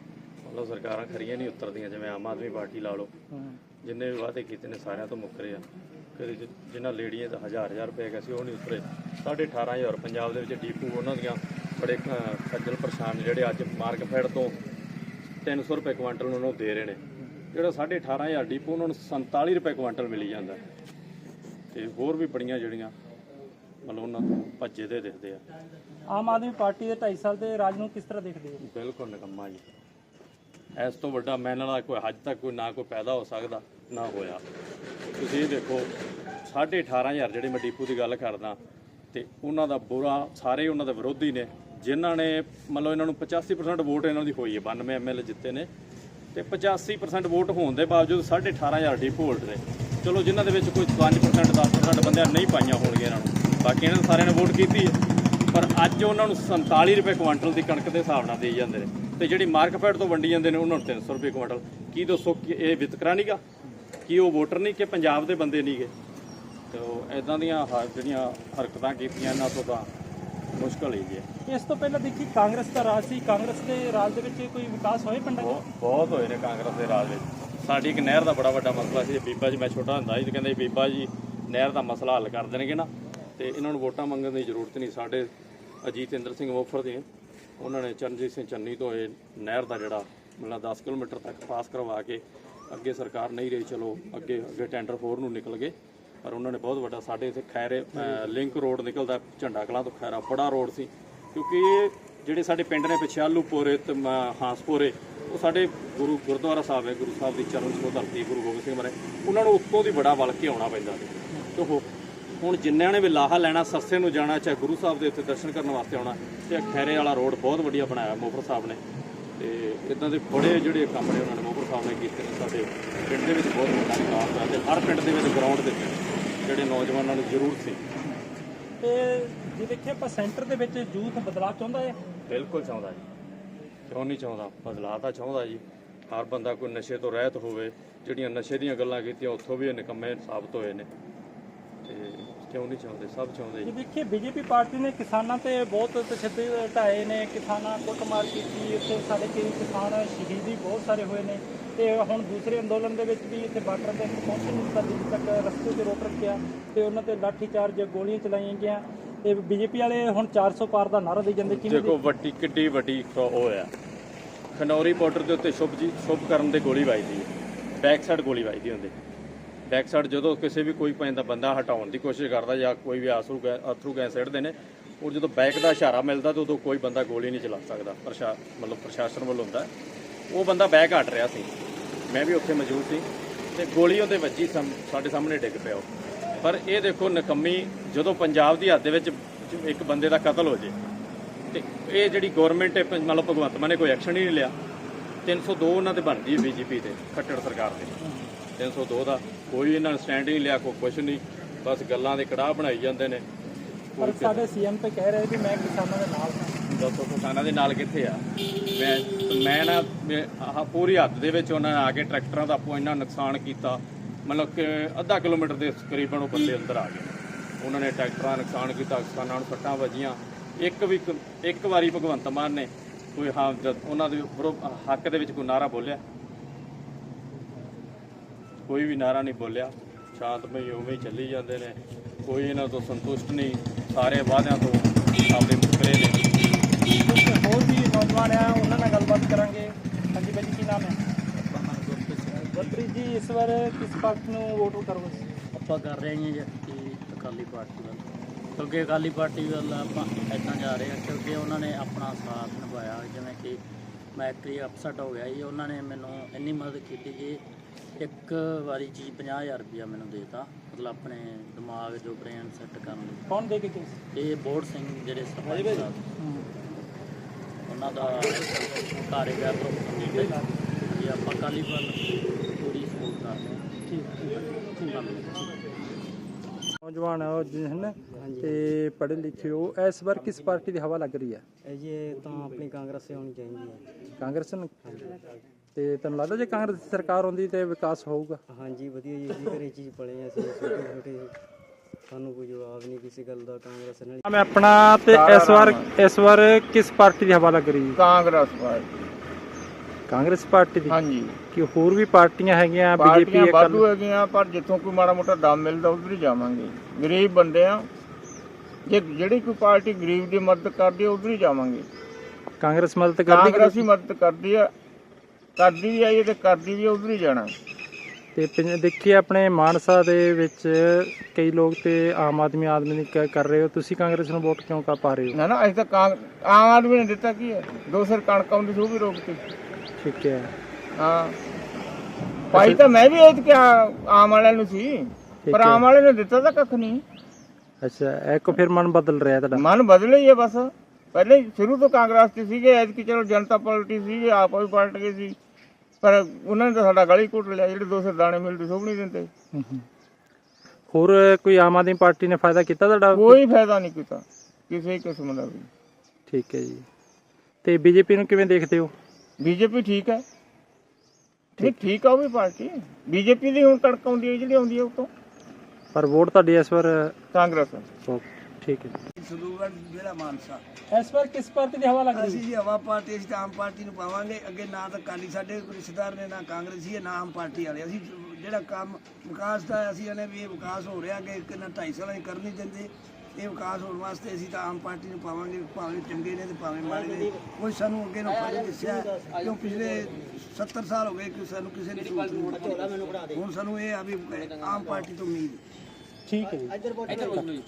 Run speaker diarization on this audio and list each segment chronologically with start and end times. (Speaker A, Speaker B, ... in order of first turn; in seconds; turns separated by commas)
Speaker A: 0.4-3.1, Speaker B: 3.3-3.6, Speaker A: 3.8-14.6, Speaker A: 15.4-17.0, Speaker A: 17.5-20.6, Speaker A: 21.7-22.9, Speaker A: 23.8-25.4, Speaker B: 26.1-28.6, Speaker A: 28.6-29.6, Speaker A: 30.8-34.4, Speaker A: 35.2-35.9, Speaker A: 36.5-38.6, Speaker A: 39.1-45.7, Speaker A: 46.3-55.0, Speaker A: 55.5-63.4, Speaker A: 64.1-65.9, Speaker A: 66.7-69.9, Speaker A: 70.5-71.2, Speaker B: 71.5-75.6, Speaker A: 75.4-85.3, Speaker A: 85.8-87.0, Speaker A: 87.6-111.9, Speaker A: 112.4-118.8, Speaker A: 119.4-127.8, Speaker B: 128.8-132.0, Speaker A: 132.3-133.0, Speaker A: 133.9-140.9, Speaker A: 141.8-143.7, Speaker B: 143.6-161.9, Speaker A: 161.4-163.7, Speaker A: 164.5-168.9, Speaker A: 169.7-179.7, Speaker A: 180.3-181.5, Speaker A: 182.1-185.8, Speaker A: 186.4-190.7, Speaker A: 191.5-194.5, Speaker A: 195.2-197.9, Speaker B: 198.0-198.3, Speaker A: 198.6-203.2, Speaker A: 203.9-204.4, Speaker B: 204.0-206.6, Speaker A: 206.7-226.0, Speaker A: 228.7-236.3, Speaker B: 237.0-241.0, Speaker C: 241.4-242.7, Speaker B: 242.5-245.3, Speaker C: 245.5-248.0, Speaker C: 248.6-253.6, Speaker C: 254.2-257.4, Speaker C: 258.0-263.2, Speaker B: 263.3-264.0, Speaker C: 264.1-266.0, Speaker B: 266.2-266.4, Speaker C: 267.6-272.0, Speaker C: 272.6-273.6, Speaker B: 273.9-275.0, Speaker C: 274.9-275.5, Speaker B: 276.8-281.4, Speaker D: 278.2-278.6, Speaker D: 281.7-283.8, Speaker B: 284.2-284.7, Speaker D: 284.9-285.1, Speaker B: 285.8-288.4, Speaker D: 288.5-291.3, Speaker D: 292.1-294.2, Speaker B: 294.2-298.0, Speaker E: 295.1-295.9, Speaker E: 297.9-298.9, Speaker B: 300.1-303.8, Speaker E: 300.9-301.3, Speaker E: 303.0-307.9, Speaker E: 308.9-311.9, Speaker B: 312.6-313.9, Speaker E: 313.2-314.7, Speaker E: 315.6-317.5, Speaker B: 318.3-325.4, Speaker E: 325.3-329.4, Speaker B: 330.0-330.5, Speaker E: 331.0-331.4, Speaker B: 332.5-332.8, Speaker E: 332.5-337.0, Speaker B: 335.5-335.8, Speaker B: 337.8-339.6, Speaker E: 339.5-345.4, Speaker E: 346.0-349.3, Speaker B: 349.5-349.8, Speaker B: 350.9-353.4, Speaker E: 353.1-355.7, Speaker B: 356.3-356.8, Speaker B: 357.6-358.9, Speaker E: 359.4-360.2, Speaker E: 361.6-365.1, Speaker B: 365.9-367.1, Speaker E: 367.3-367.8, Speaker B: 368.1-368.9, Speaker F: 369.1-370.6, Speaker B: 370.9-372.4, Speaker F: 372.1-395.6, Speaker B: 396.3-397.5